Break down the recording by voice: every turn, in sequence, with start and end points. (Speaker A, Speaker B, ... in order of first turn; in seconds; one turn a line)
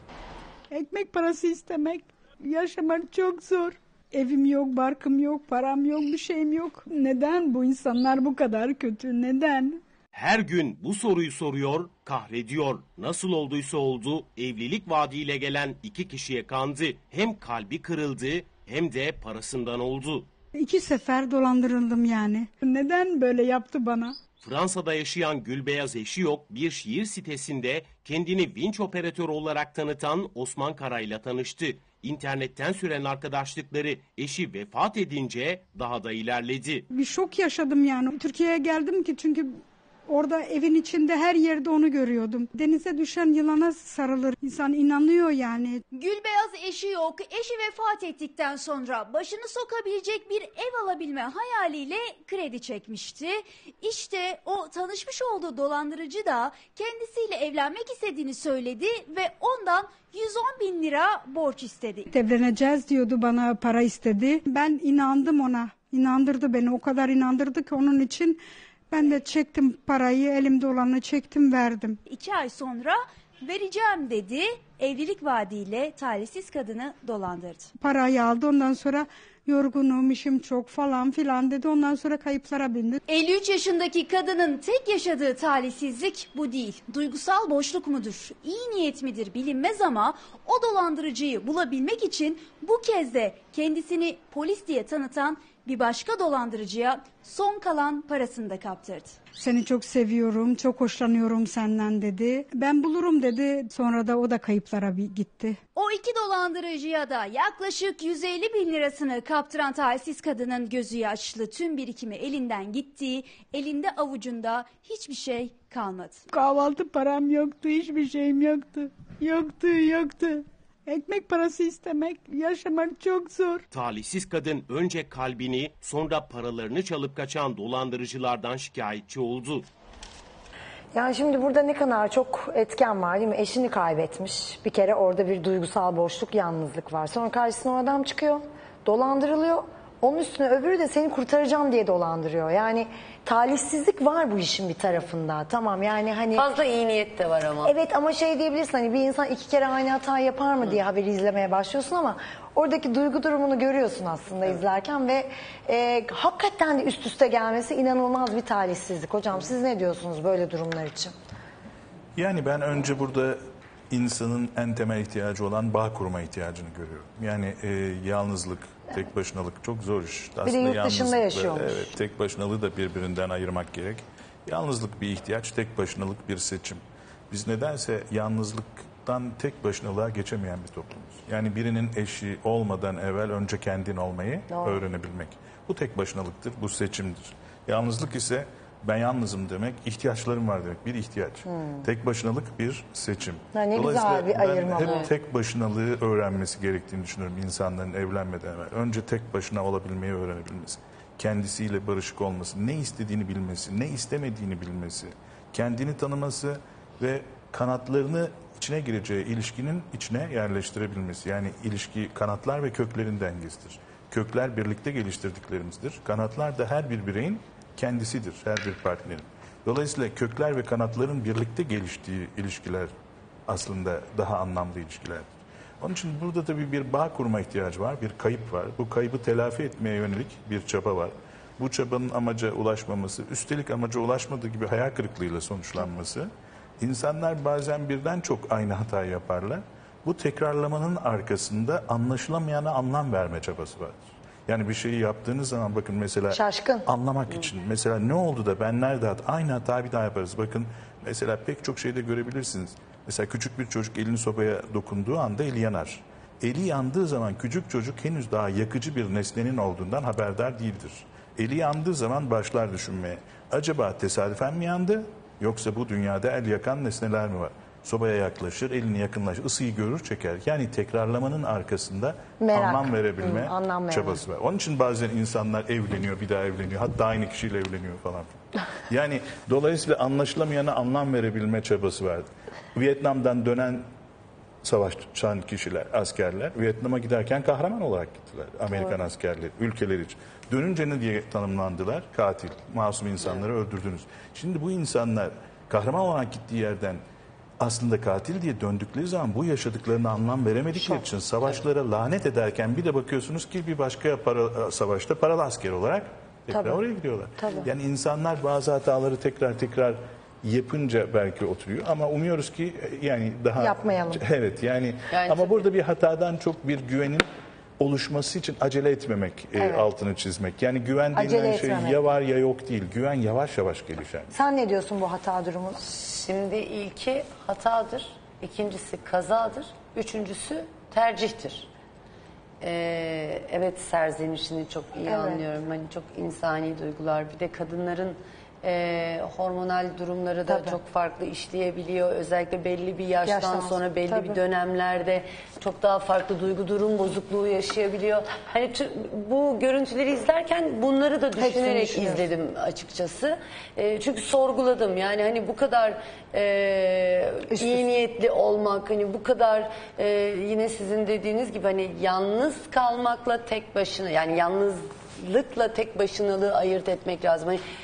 Speaker A: 0.7-9.8
Speaker B: 10.1-20.3
Speaker A: 20.6-24.1
Speaker B: 24.4-36.9
Speaker A: 36.9-45.8
Speaker C: 45.9-62.0
Speaker A: 62.1-72.0
Speaker C: 72.0-77.7
Speaker A: 77.8-83.0
Speaker C: 83.1-99.2
Speaker A: 99.3-105.6
Speaker C: 105.7-116.2
Speaker A: 116.3-123.6
Speaker B: 123.7-129.7
Speaker D: 130.9-146.4
Speaker E: 146.3-147.7
Speaker D: 147.6-161.1
Speaker F: 162.2-222.9
Speaker D: 170.4-171.9
Speaker D: 184.5-184.8
Speaker D: 191.5-191.8
Speaker D: 193.5-195.1
Speaker E: 194.8-195.1
Speaker F: 223.5-225.3
Speaker F: 225.8-283.9
Speaker D: 246.3-246.8
Speaker D: 272.4-274.2
Speaker F: 284.6-297.0
Speaker F: 297.6-317.3
Speaker D: 306.5-306.8
Speaker D: 307.4-307.7
Speaker D: 313.6-314.2
Speaker E: 315.1-315.6
Speaker F: 317.8-324.3
Speaker D: 319.6-319.9
Speaker D: 321.1-322.0
Speaker D: 324.3-325.8
Speaker E: 325.8-331.7
Speaker E: 332.6-367.6
Speaker D: 335.1-335.4
Speaker D: 340.5-340.8
Speaker D: 343.2-344.4
Speaker D: 351.4-352.2
Speaker D: 357.5-357.8